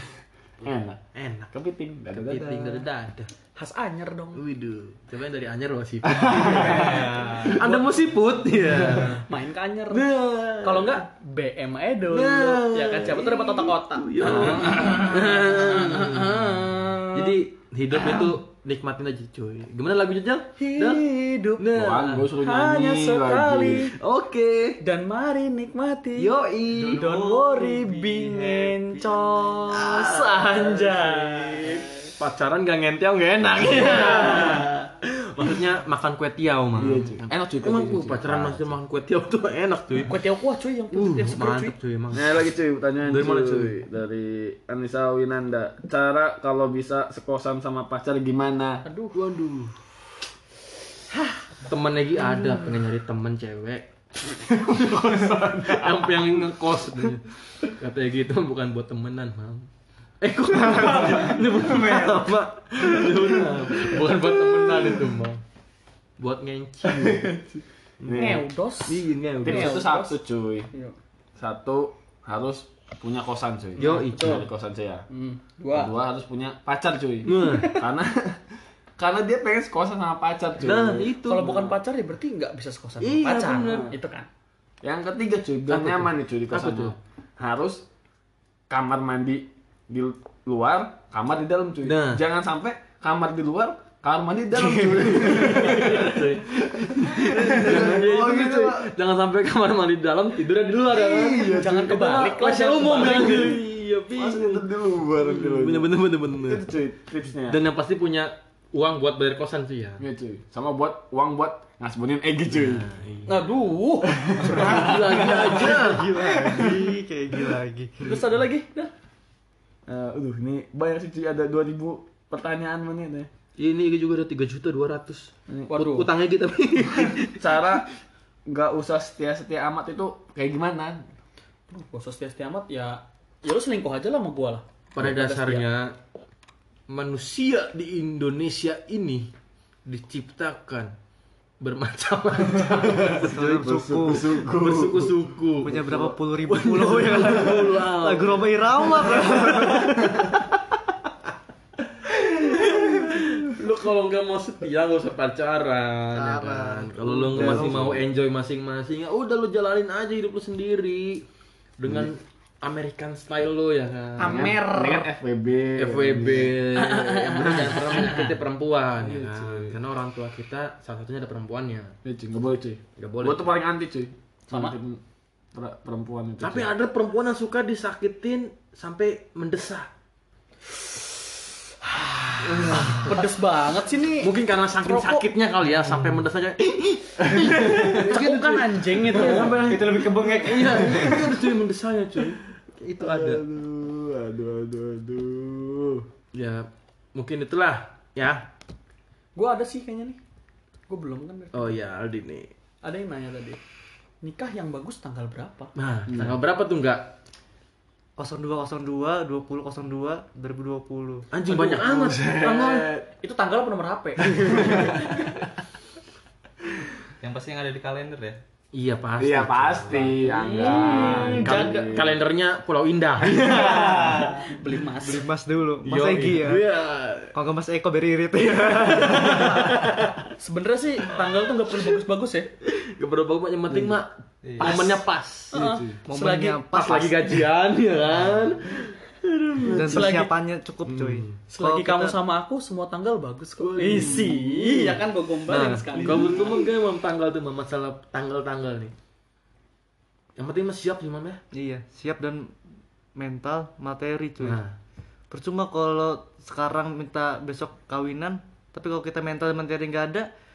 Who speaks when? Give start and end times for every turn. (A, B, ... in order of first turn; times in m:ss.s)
0:00.6-0:01.0 A
0:01.1-0:01.5 B
0:01.5-0:02.8 A
0:02.1-0:03.3 B
0:03.5-0:04.4 C
0:04.3-0:09.3 B
0:06.1-0:07.0 A
0:06.7-0:07.6 D
0:09.2-0:16.4 C
0:09.9-0:11.0 B
0:12.1-0:22.3 B
0:14.3-0:15.0 A
0:20.6-0:21.6 C
0:21.6-0:23.9 A
0:22.4-0:23.9 C
0:24.0-0:24.8 B
0:24.8-0:26.3 C
0:26.2-0:27.1 B
0:26.7-0:29.5 E
0:26.9-0:32.0 C
0:29.7-0:40.2 B
0:33.7-0:34.5 A
0:33.8-0:34.7 C
0:36.8-0:38.8 A
0:40.0-0:41.7 C
0:40.9-0:42.4 B
0:42.1-0:48.8 A
0:43.0-0:43.8 B
0:48.8-0:49.1 C
0:49.1-0:49.8 B
0:51.6-0:53.8 B
0:54.4-0:59.7 B
0:54.6-0:56.1 A
1:00.2-1:05.4 B
1:06.2-1:07.3 B
1:06.9-1:07.4 A
1:08.0-1:09.8 B
1:08.0-1:08.4 A
1:08.1-1:10.9 C
1:09.4-1:10.7 A
1:11.4-1:15.0 A
1:13.8-1:14.4 B
1:13.8-1:14.5 C
1:15.1-1:16.0 C
1:15.7-1:18.4 A
1:17.2-1:17.8 B
1:17.3-1:17.8 C
1:19.0-1:21.1 A
1:20.6-1:21.8 B
1:21.2-1:24.3 C
1:23.0-1:24.0 B
1:24.8-1:27.8 A
1:25.7-1:27.0 B
1:28.7-1:38.9 A
1:31.8-1:32.2 B
1:34.8-1:46.7 B
1:40.9-1:42.0 A
1:41.2-1:43.6 C
1:44.1-1:47.6 A
1:47.5-1:50.0 B
1:50.0-1:52.9 A
1:52.5-1:53.4 B
1:53.2-1:55.1 C
1:54.1-1:57.0 A
1:54.4-1:56.3 B
1:55.2-1:58.1 E
1:58.0-1:58.9 C
1:59.9-2:03.3 A
2:03.6-2:07.8 B
2:05.7-2:06.1 C
2:07.0-2:07.8 A
2:08.5-2:11.0 A
2:11.7-2:15.6 C
2:14.9-2:15.9 B
2:16.9-2:19.3 B
2:19.8-2:20.9 B
2:21.6-2:25.9 B
2:22.8-2:26.2 A
2:23.2-2:24.3 E
2:25.6-2:30.0 E
2:26.4-2:30.5 B
2:30.0-2:30.4 A
2:32.0-2:41.2 B
2:36.1-2:38.0 E
2:37.1-2:38.0 A
2:41.8-2:44.6 B
2:41.8-2:42.1 A
2:44.2-2:45.1 C
2:44.2-2:47.8 A
2:45.8-2:51.9 B
2:47.3-2:48.3 C
2:49.1-2:49.6 A
2:49.2-2:49.7 D
2:52.0-2:55.0 A
2:53.0-2:53.5 B
2:54.5-2:54.8 C
2:55.5-2:56.7 A
2:56.4-2:59.9 B
3:01.8-3:03.3 B
3:02.4-3:03.1 A
3:02.7-3:04.3 C
3:04.2-3:13.4 B
3:04.8-3:05.2 C
3:07.4-3:09.6 C
3:09.1-3:11.4 E
3:09.6-3:11.2 D
3:13.0-3:16.0 A
3:16.3-3:18.4 B
3:19.4-3:20.2 C
3:20.9-3:21.8 C
3:21.5-3:22.5 B
3:22.8-3:23.6 C
3:24.2-3:25.7 C
3:25.8-3:27.2 B
3:26.1-3:26.4 A
3:28.2-3:31.2 E
3:31.3-3:33.0 B
3:31.5-3:33.0 A
3:33.2-3:35.3 C
3:34.4-3:35.0 A
3:34.4-3:34.8 B
3:37.2-3:38.4 D
3:38.7-3:44.5 B
3:39.2-3:42.2 A
3:40.2-3:41.9 C
3:43.2-3:45.2 C
3:44.6-3:46.6 E
3:45.8-3:47.3 B
3:47.3-3:49.7 E
3:48.5-3:50.3 B
3:50.4-3:52.5 C
3:52.6-3:55.6 B
3:53.7-3:54.0 A
3:54.4-3:54.7 D
3:54.6-3:56.6 C
3:55.5-3:56.0 A
3:56.1-3:57.3 E
3:56.7-4:00.1 B
3:59.6-4:02.2 E
3:59.7-4:00.3 C
4:00.8-4:01.4 B
4:01.5-4:06.6 C
4:03.6-4:08.9 B
4:03.9-4:04.3 A
4:10.4-4:11.4 B
4:11.5-4:12.5 E
4:13.1-4:14.6 E
4:14.4-4:14.7 B
4:15.3-4:20.3 E